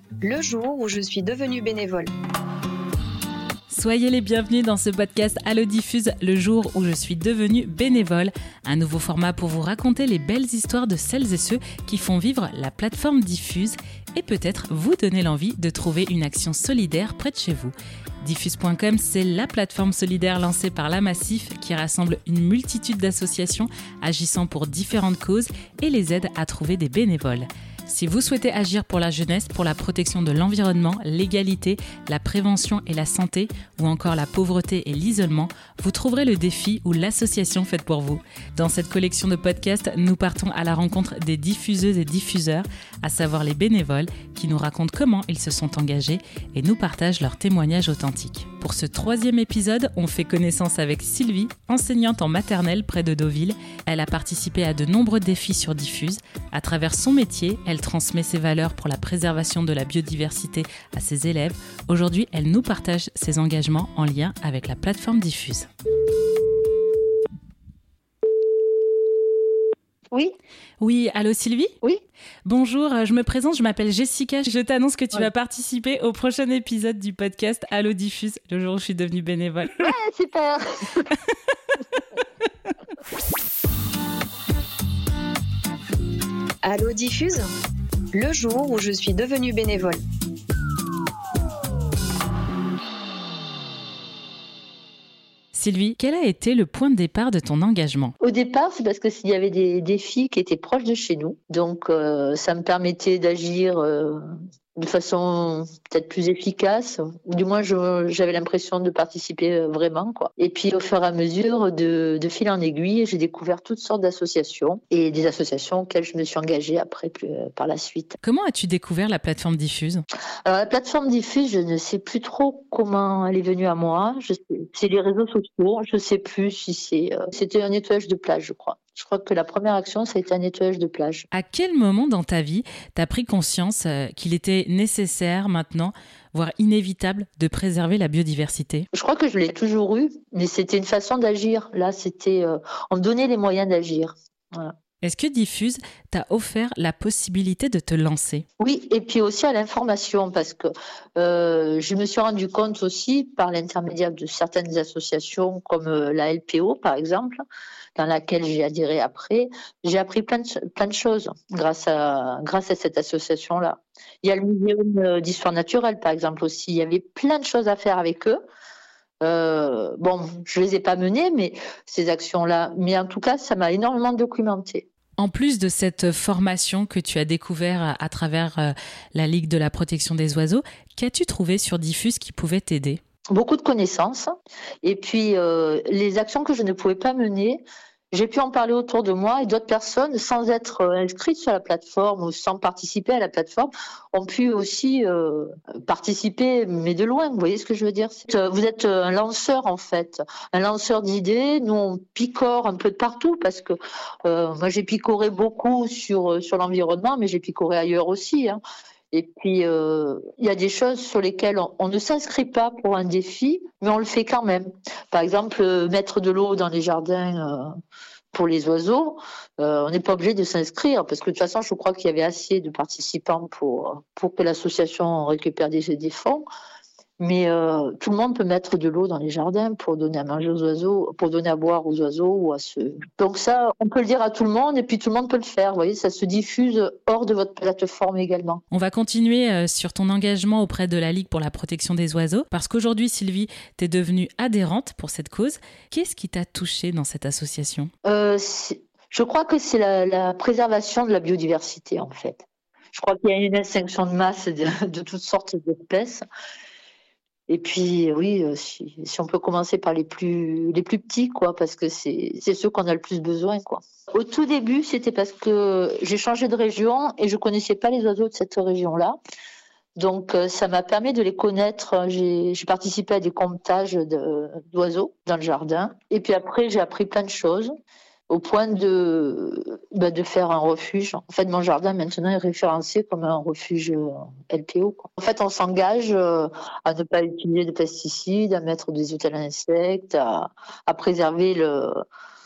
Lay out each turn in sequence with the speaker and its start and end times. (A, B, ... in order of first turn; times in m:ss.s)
0:00.2-0:02.1 A
0:03.7-1:05.7 B
1:10.8-1:11.7 B
1:12.4-1:19.9 B
1:19.8-1:21.1 C
1:26.6-1:27.5 A
1:28.1-1:30.0 A
1:35.5-1:38.1 B
1:38.2-1:44.2 C
1:44.8-1:58.2 C
1:58.2-2:00.0 B
2:00.4-2:11.3 C
2:11.3-2:18.9 B
2:18.9-2:24.7 C
2:25.0-2:28.4 B
2:28.6-2:37.4 C
2:38.0-2:48.4 C
2:49.2-2:54.9 C
2:55.2-3:03.0 B
3:03.3-3:04.3 C
3:04.8-3:28.6 C
3:29.1-3:37.7 C
3:38.3-3:46.5 C
3:47.2-3:58.6 C
3:58.7-4:07.9 B
4:08.0-4:16.2 C
4:17.5-4:29.2 C
4:30.0-4:37.7 C
4:38.3-4:52.0 C